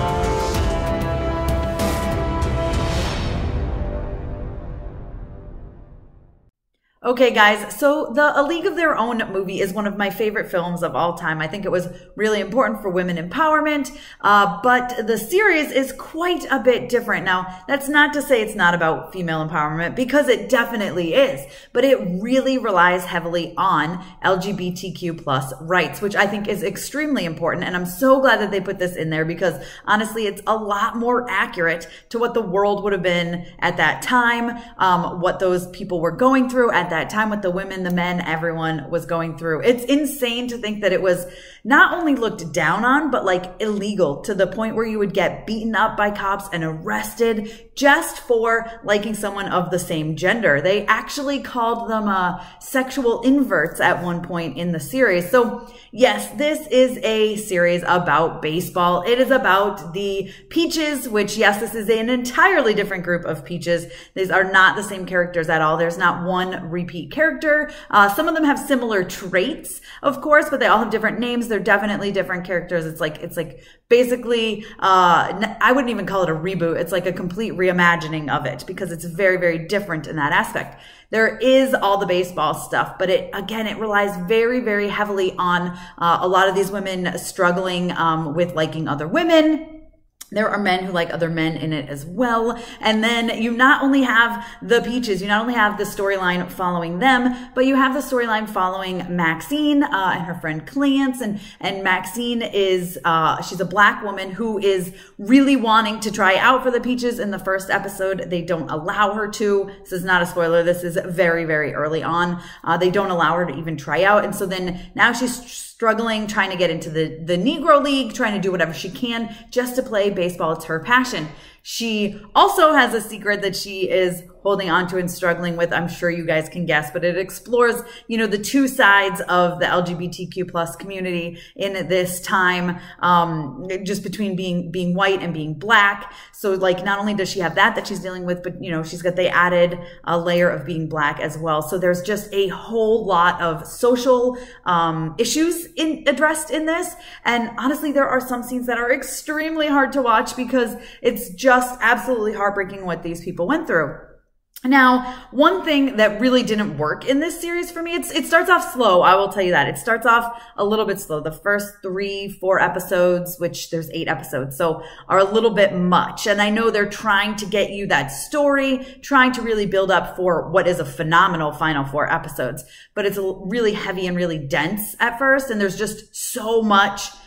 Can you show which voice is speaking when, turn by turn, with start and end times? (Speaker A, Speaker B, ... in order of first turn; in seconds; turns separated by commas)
Speaker A: 7.0-89.8, Speaker A: 90.3-154.1, Speaker A: 154.7-177.1